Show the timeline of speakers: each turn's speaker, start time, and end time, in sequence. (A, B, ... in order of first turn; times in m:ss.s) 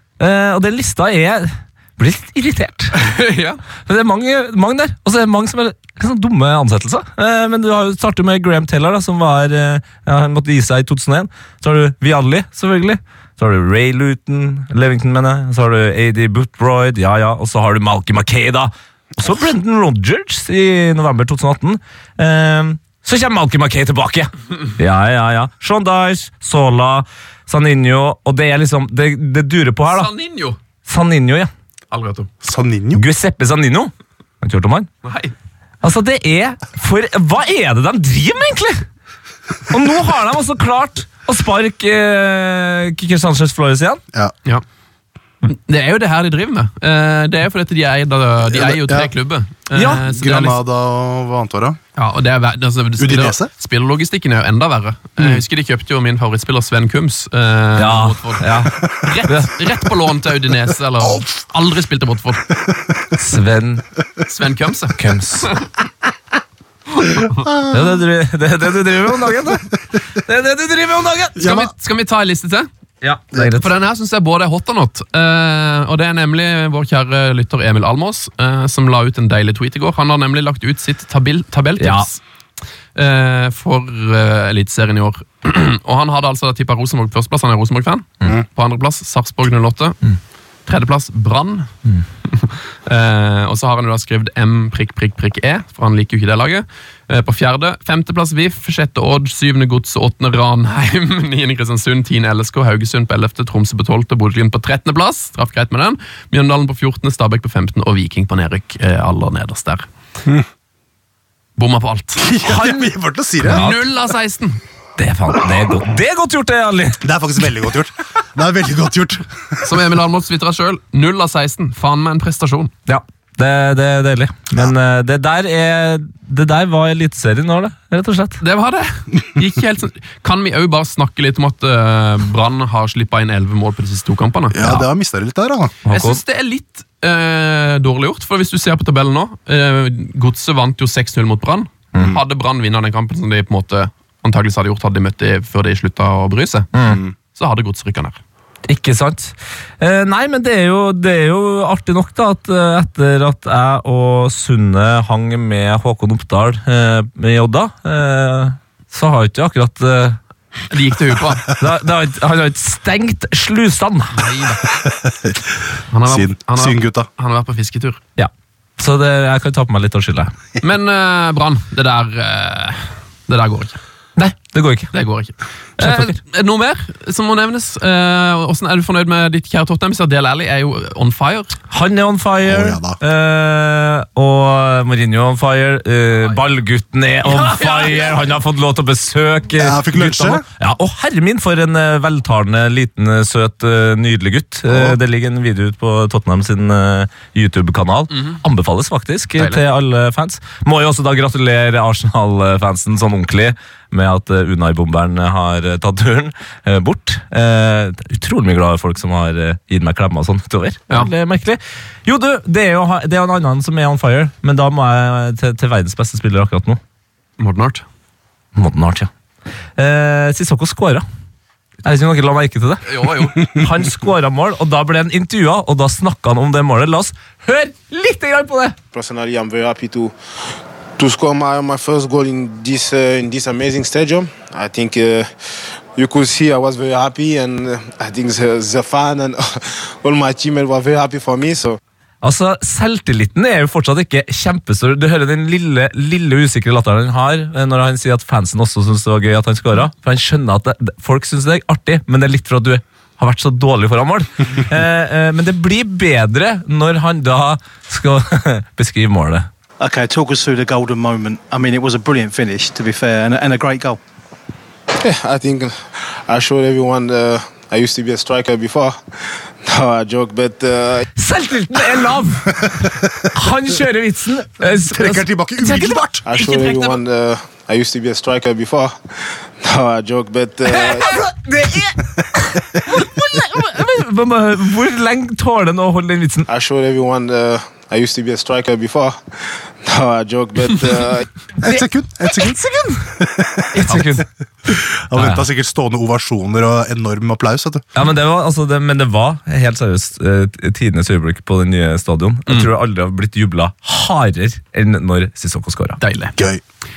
0:00.2-0:03.0 A
0:02.9-0:03.6 B
0:03.9-0:30.1 A
0:29.9-0:30.6 B
0:30.8-0:31.5 A
0:31.9-0:32.3 B
0:32.4-0:33.0 C
0:33.0-0:34.9 A
0:35.0-0:35.3 B
0:35.8-0:38.8 A
0:39.7-0:44.0 A
0:45.4-0:50.6 B
0:48.5-0:49.1 C
0:49.7-0:50.0 A
0:50.0-0:51.8 C
0:52.0-0:58.5 B
0:53.0-0:53.5 C
0:57.8-0:59.6 A
0:59.0-1:02.5 B
1:01.0-1:01.3 C
1:03.2-1:03.8 A
1:04.2-1:05.6 B
1:05.0-1:05.5 A
1:07.2-1:07.8 C
1:07.6-1:11.6 A
1:11.4-1:11.7 C
1:11.4-1:12.7 B
1:13.0-1:13.7 A
1:13.6-1:22.2 B
1:21.8-1:22.1 A
1:23.0-1:30.0 B
1:30.7-1:31.7 B
1:32.2-1:49.9 B
1:51.6-1:52.2 B
1:52.2-1:53.7 C
1:52.4-1:52.9 A
1:53.4-1:54.6 B
1:53.5-1:53.8 A
1:55.0-1:57.0 A
1:57.0-1:59.8 C
1:59.6-2:02.7 B
2:02.9-2:08.4 A
2:08.4-2:14.6 B
2:14.5-2:15.8 C
2:15.8-2:16.2 A
2:15.9-2:26.7 B
2:26.7-2:27.0 A
2:26.8-2:27.1 C
2:27.3-2:28.2 B
2:28.7-2:40.2 A
2:40.7-2:41.5 B
2:41.6-2:44.2 A
2:44.1-2:44.7 B
2:44.7-2:45.4 C
2:45.9-2:48.0 B
2:46.0-2:47.1 C
2:48.2-2:50.3 A
2:50.6-2:53.8 B
2:54.2-2:54.9 A
2:54.9-3:01.6 B
2:55.8-2:56.2 A
3:01.7-3:36.8 A
3:02.4-3:03.0 C
3:07.2-3:08.2 B
3:09.6-3:10.4 C
3:14.7-3:15.0 C
3:18.1-3:18.4 B
3:37.4-3:37.8 B
3:38.6-3:39.1 A
3:39.8-3:41.0 A
3:41.8-3:48.8 A
3:42.8-3:43.5 B
3:48.9-3:50.1 D
3:51.0-3:55.3 D
3:56.0-4:01.8 D
4:02.2-4:19.5 A
4:19.8-4:23.8 E
4:25.0-4:31.0 D
4:31.2-4:36.0 A
4:34.8-4:36.3 C
4:36.2-4:41.2 D
4:36.4-4:37.0 B
4:40.7-4:46.5 A
4:46.5-4:51.3 D
4:51.6-4:52.6 C
4:51.6-4:53.0 A
4:53.2-4:54.0 C
4:53.7-4:54.3 A
4:54.7-4:57.8 C
4:55.2-4:55.5 A
4:57.9-5:06.0 A
5:06.0-5:06.4 B